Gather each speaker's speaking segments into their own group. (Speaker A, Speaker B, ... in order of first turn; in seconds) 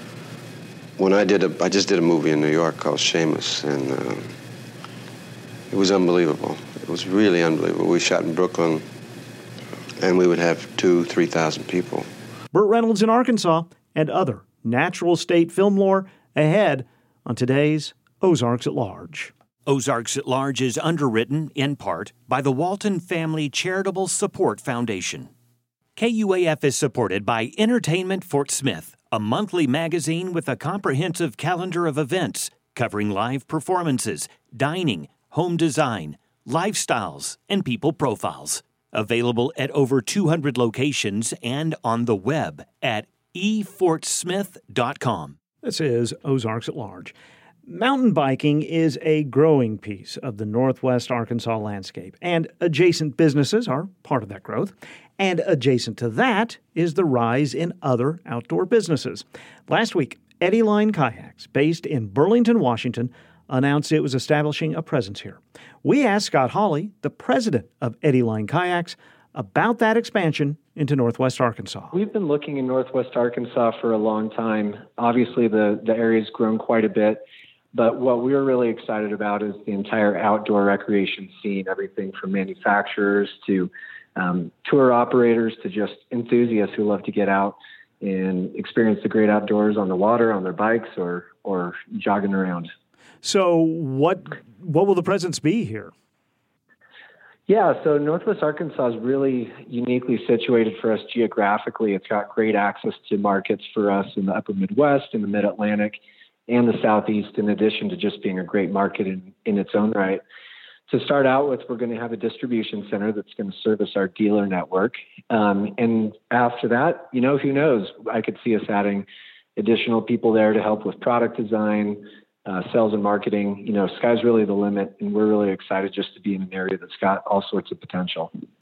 Speaker A: 1.0-4.3, 5.7-8.8, 10.0-12.1
Speaker B: 12.5-19.3, 45.6-47.1, 47.7-71.9, 93.2-95.9
Speaker C: 19.7-25.3, 26.0-45.4
Speaker D: 71.9-77.2, 77.7-92.7, 97.5-106.0, 106.5-110.2, 110.9-119.1, 119.6-128.3